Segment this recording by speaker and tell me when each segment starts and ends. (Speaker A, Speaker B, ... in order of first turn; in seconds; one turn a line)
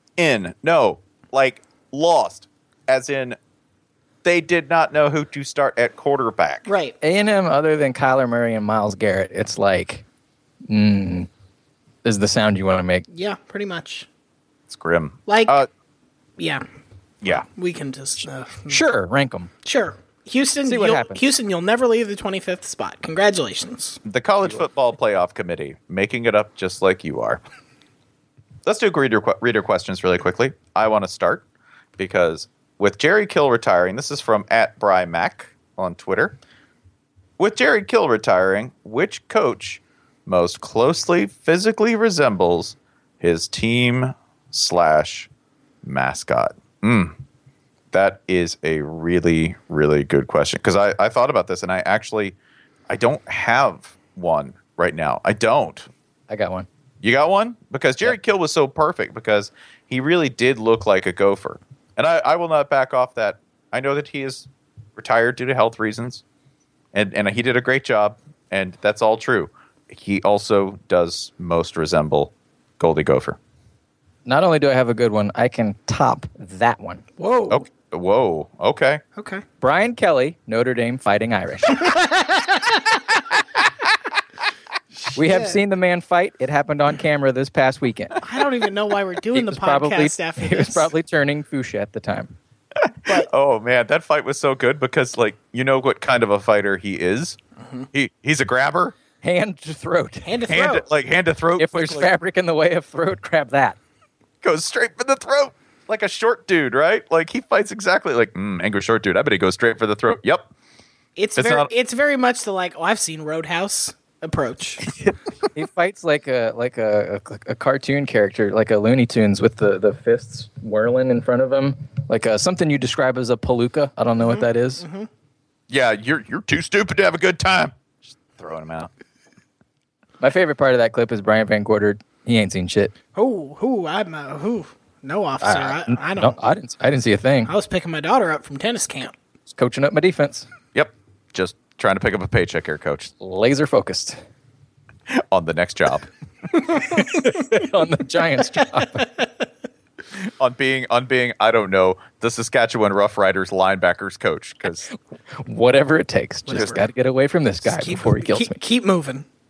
Speaker A: 0.2-3.4
Speaker A: 4.2-6.7
Speaker B: 6.7-7.0
Speaker C: 7.0-10.0
Speaker C: 10.7-11.3
Speaker C: 12.0-13.0
Speaker B: 13.1-14.1
Speaker A: 14.7-15.7
Speaker B: 15.3-15.6
Speaker B: 16.4-16.6
Speaker B: 17.3-18.8
Speaker C: 18.7-19.5
Speaker B: 19.6-24.0
Speaker C: 20.7-21.2
Speaker A: 24.1-27.4
Speaker A: 28.7-31.4
Speaker A: 32.0-36.4
Speaker A: 37.4-45.3
Speaker A: 45.8-47.1
Speaker A: 47.9-52.4
Speaker A: 52.9-55.9
Speaker C: 56.3-56.7
Speaker A: 57.0-66.2
Speaker A: 66.9-73.4
Speaker C: 74.2-77.0
Speaker B: 77.2-77.6
Speaker A: 77.5-79.0
Speaker B: 79.2-79.4
Speaker C: 79.6-81.9
Speaker B: 81.8-83.2
Speaker B: 85.0-85.6
Speaker C: 85.2-88.2
Speaker B: 88.2-90.9
Speaker C: 89.3-92.3
Speaker A: 92.8-97.4
Speaker A: 97.9-99.0
Speaker C: 99.2-100.3
Speaker B: 100.2-100.9
Speaker A: 100.5-102.1
Speaker C: 101.6-103.8
Speaker A: 104.4-110.5
Speaker B: 111.2-114.8
Speaker A: 111.4-111.7
Speaker C: 115.0-124.8
Speaker B: 124.2-125.1
Speaker A: 125.7-128.9
Speaker C: 130.2-132.9
Speaker B: 133.2-136.4
Speaker C: 135.4-137.5
Speaker B: 137.5-139.1
Speaker C: 139.5-140.5
Speaker A: 140.7-143.1
Speaker C: 143.2-144.2
Speaker A: 145.1-146.1
Speaker C: 146.7-149.1
Speaker B: 149.0-149.3
Speaker A: 150.4-154.9
Speaker C: 154.9-158.6
Speaker B: 156.5-156.8
Speaker B: 157.6-159.3